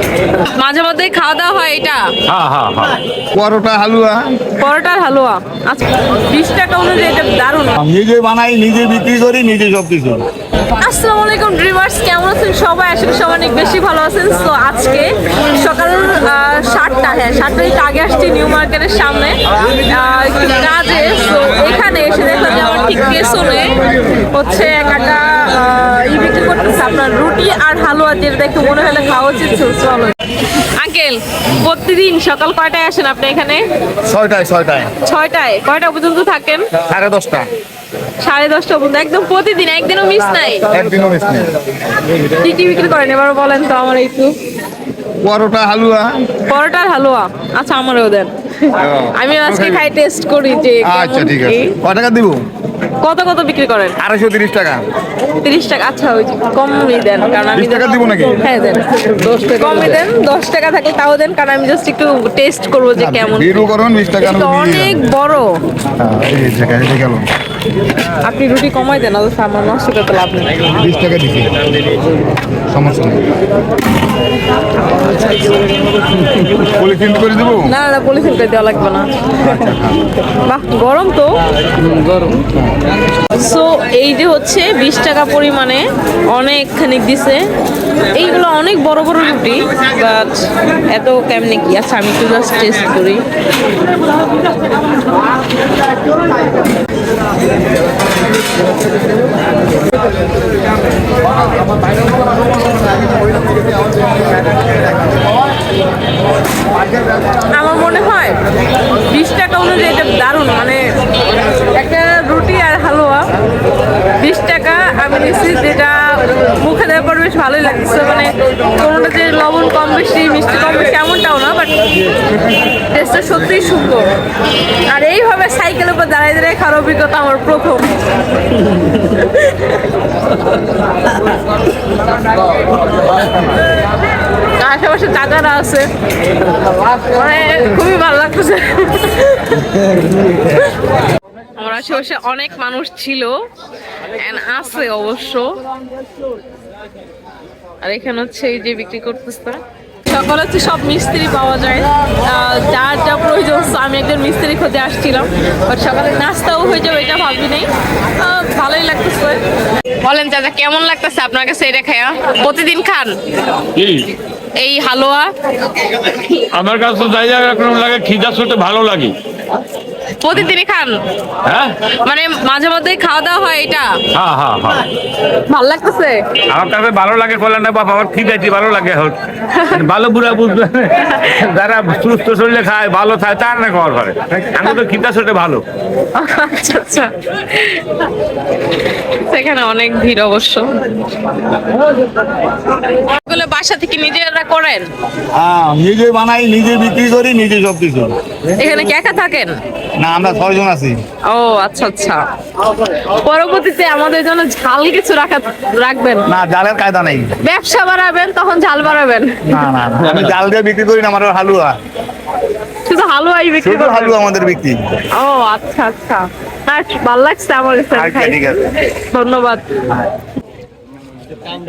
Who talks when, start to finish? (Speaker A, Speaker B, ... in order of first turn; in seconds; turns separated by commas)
Speaker A: 0.4-2.1, Speaker B: 2.2-3.0, Speaker C: 3.3-4.2, Speaker A: 4.6-7.8, Speaker C: 7.8-10.2, Speaker A: 10.8-23.8, Speaker A: 24.3-33.6, Speaker C: 34.0-34.9, Speaker A: 35.0-36.7, Speaker C: 36.8-37.5, Speaker A: 38.2-40.7, Speaker C: 40.7-41.5, Speaker A: 42.2-44.3, Speaker C: 45.2-46.4, Speaker A: 46.4-51.7, Speaker C: 48.8-49.9, Speaker C: 50.8-52.4, Speaker A: 53.0-54.0, Speaker C: 54.0-54.8, Speaker A: 55.4-63.6, Speaker C: 57.5-58.4, Speaker C: 63.0-65.0, Speaker A: 64.2-65.6, Speaker C: 66.0-67.3, Speaker A: 68.2-70.6, Speaker C: 70.8-71.5, Speaker C: 72.7-73.2, Speaker C: 76.4-77.7, Speaker A: 77.7-79.1, Speaker C: 79.4-80.0, Speaker A: 80.4-81.3, Speaker C: 82.4-82.7, Speaker A: 83.3-87.4, Speaker A: 88.2-90.4, Speaker A: 90.9-93.2, Speaker A: 107.3-108.4, Speaker A: 109.0-110.8, Speaker A: 111.7-113.2, Speaker A: 114.2-121.8, Speaker A: 122.9-124.1, Speaker A: 124.8-127.9, Speaker A: 128.6-129.8, Speaker A: 134.6-135.9, Speaker A: 136.9-139.7, Speaker A: 141.6-143.4, Speaker A: 144.1-145.6, Speaker A: 147.8-159.4, Speaker A: 160.0-163.2, Speaker B: 163.7-164.1, Speaker A: 164.6-165.3, Speaker B: 166.3-169.1, Speaker A: 170.2-171.0, Speaker B: 171.4-171.8, Speaker A: 172.0-174.0, Speaker B: 174.1-174.8, Speaker A: 175.5-176.2, Speaker B: 176.5-185.6, Speaker A: 179.5-179.8, Speaker A: 186.1-188.0, Speaker A: 189.1-190.8, Speaker A: 193.1-194.9, Speaker C: 195.3-198.2, Speaker A: 198.5-199.6, Speaker C: 200.0-201.0, Speaker A: 201.3-202.2, Speaker A: 202.9-206.3, Speaker C: 206.3-207.3, Speaker A: 207.4-209.5, Speaker C: 209.4-211.8, Speaker A: 212.9-214.2, Speaker C: 213.6-214.8, Speaker A: 215.1-219.8, Speaker C: 217.9-218.8